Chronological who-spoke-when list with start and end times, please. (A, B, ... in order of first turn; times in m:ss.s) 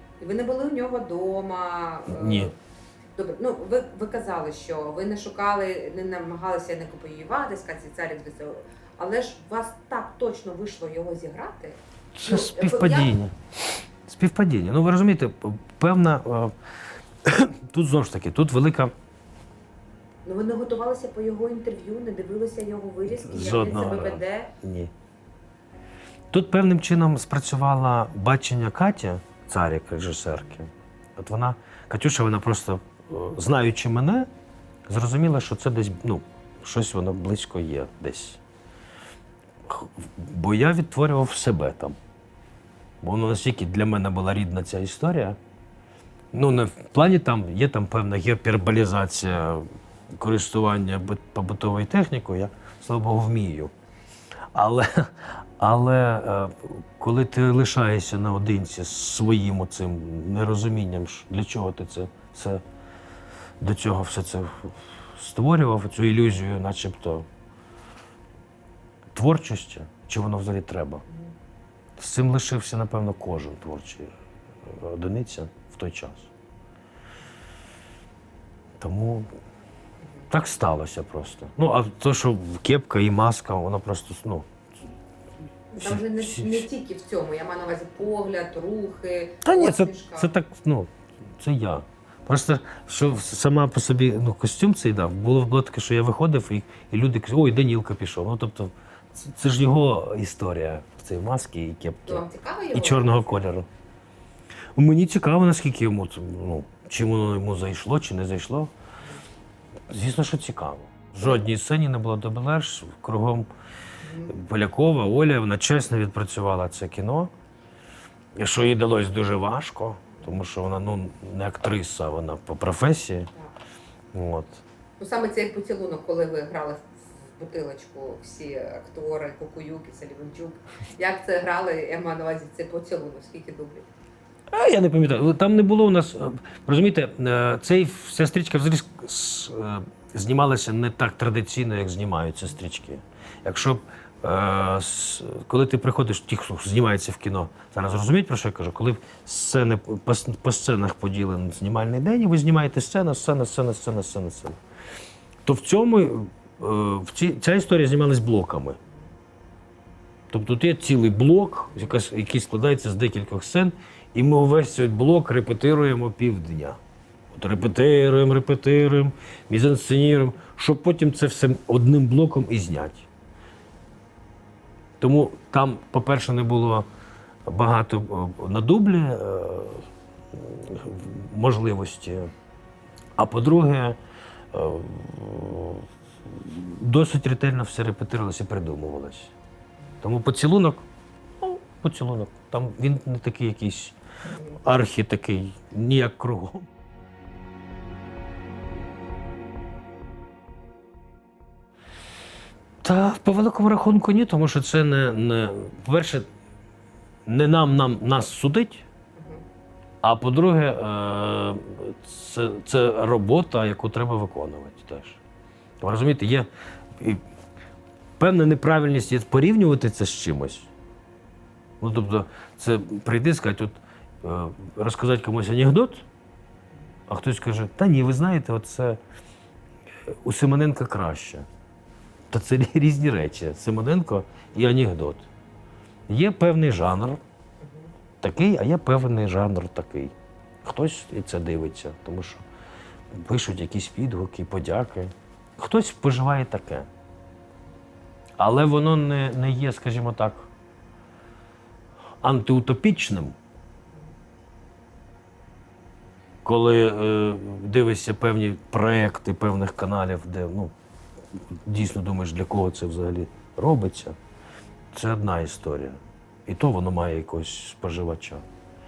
0:00.2-0:02.5 A
0:02.0-0:02.5 B
0:03.1-0:13.2 A
0:12.1-0:13.3 B
0:14.0-0:16.5 B
0:17.2-0:18.9 B
0:20.2-0:24.5 A
0:23.1-0:24.9 B
0:26.3-0:34.3 B
0:34.9-0:38.4 B
0:39.6-0:42.0 B
0:43.0-0:45.4 B
0:46.3-0:53.7 B
0:54.5-1:02.6 B
1:03.6-1:07.3 B
1:09.1-1:11.0 B
1:12.0-1:14.1 B
1:14.6-1:16.3 B
1:18.8-1:19.3 B
1:20.3-1:24.5 B
1:25.7-1:30.3 A
1:25.8-1:26.6 B
1:29.4-1:43.7 B
1:42.0-1:43.4 A
1:44.8-1:48.7 B
1:49.9-1:53.5 B
1:54.0-1:54.4 A
1:54.3-1:57.3 B
1:58.4-2:03.3 B
2:04.1-2:04.6 B
2:05.0-2:13.9 A
2:14.5-2:34.6 B
2:35.4-2:38.8 B
2:40.3-2:46.8 B
2:47.3-2:53.1 B
2:55.0-2:56.9 B
2:57.4-3:02.3 B
3:03.2-3:04.0 B
3:04.5-3:09.3 B
3:10.0-3:10.8 B
3:11.4-3:16.7 B
3:22.8-3:26.2 B
3:27.2-3:28.8 B
3:29.2-3:29.4 A
3:30.0-3:35.2 B
3:35.8-3:37.2 B
3:38.2-3:40.7 B
3:41.8-3:46.0 B
3:47.1-3:49.0 B
3:50.1-3:51.5 B
3:52.3-3:55.3 B
3:56.1-3:57.2 B
3:58.2-4:02.4 B
4:03.1-4:06.9 B
4:08.4-4:10.5 B
4:12.2-4:13.4 B
4:16.4-4:20.7 B
4:21.5-4:24.2 B
4:24.9-4:28.4 B